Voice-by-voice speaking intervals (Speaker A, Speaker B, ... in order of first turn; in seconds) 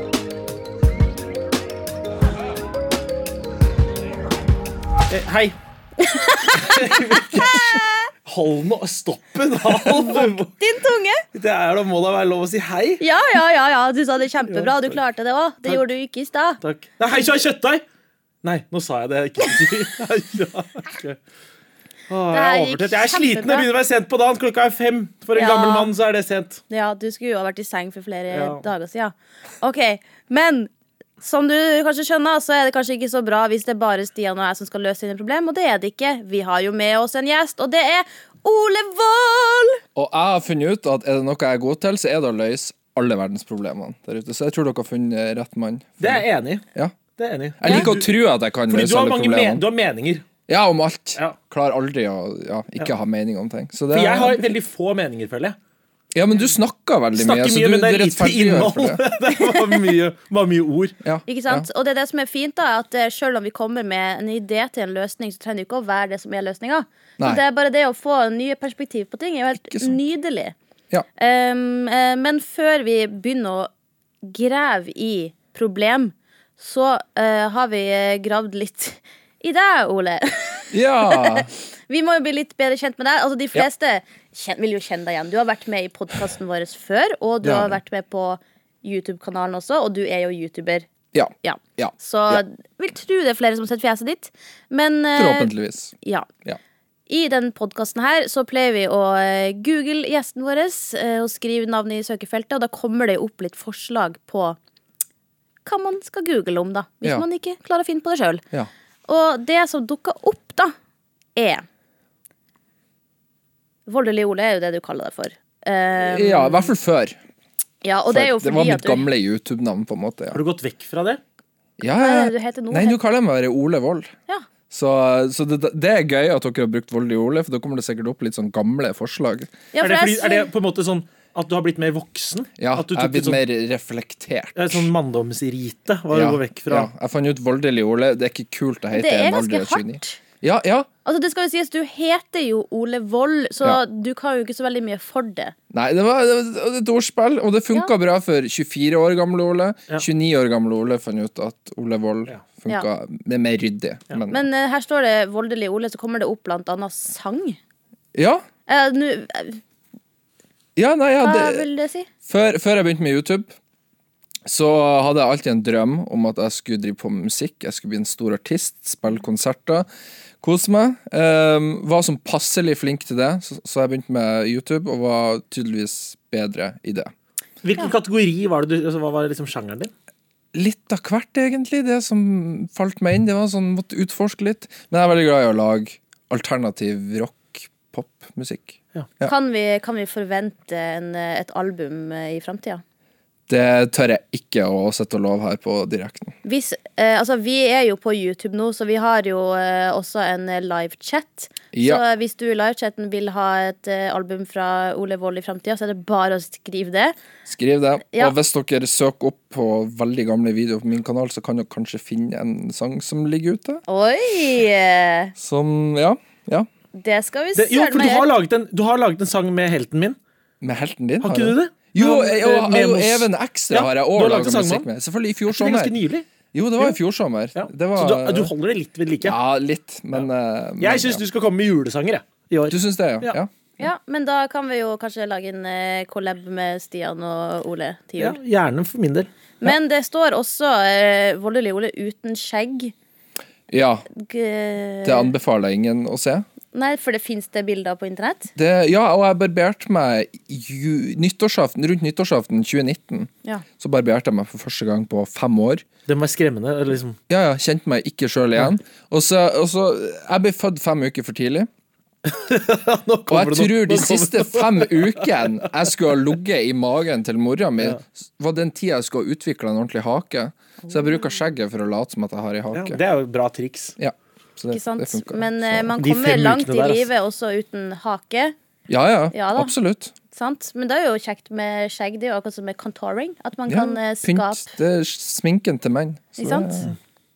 Speaker A: 5.1-5.5, 6.5-7.7, 8.2-10.5, 11.3-13.0, 14.5-15.0, 16.6-17.8, 18.4-21.2, 22.1-26.6, 28.3-28.6, 46.0-46.6, 47.2-48.1, 48.7-50.2, 53.9-55.5, 57.1-61.0, 120.3-121.2, 129.8-133.4, 134.5-136.9, 177.6-179.9, 217.6-220.2, 221.2-224.9, 225.5-226.2, 227.5-229.3, 230.8-233.4, 238.2-239.7, 256.1-257.2, 262.2-265.6, 272.7-273.9, 276.0-277.1
Speaker B: 6.0-7.8, 9.9-11.2, 13.0-16.6, 22.3-23.6, 25.3-25.9, 26.7-39.8, 61.2-70.5, 71.2-73.7, 74.2-90.9, 91.4-96.3, 97.1-104.6, 105.6-108.4, 109.1-110.7, 111.3-111.6, 113.9-116.7, 117.8-119.1, 121.8-123.0, 129.7-130.5, 138.9-140.2, 141.0-145.5, 154.3-157.6, 158.7-159.6, 161.2-162.1, 189.2-192.8, 196.4-207.1, 213.9-215.3, 216.9-218.3, 233.8-238.4, 239.6-242.9, 244.1-245.3, 246.7-248.5, 274.7-278.5, 279.3-279.7, 280.3-284.7, 286.4-286.9
Speaker C: 39.9-46.2, 47.6-49.6, 50.5-54.5, 56.1-59.0, 61.0-61.7, 69.7-70.0, 80.7-81.5, 87.4-87.8, 91.1-92.4, 95.2-95.9, 116.0-117.2, 118.1-120.4, 121.8-124.1, 124.7-129.6, 132.6-134.9, 136.1-140.9, 145.7-154.4, 158.1-158.4, 160.8-161.7, 162.3-163.5, 164.4-169.8, 170.4-177.1, 180.5-189.3, 193.5-196.3, 201.7-202.0, 207.5-213.8, 215.3-216.7, 220.6-225.9, 226.5-228.5, 229.2-231.2, 232.7-233.5, 243.7-244.0, 245.0-246.4, 248.5-255.8, 257.3-261.7, 263.3-273.0, 274.0-275.9, 278.9-280.1, 283.7-286.9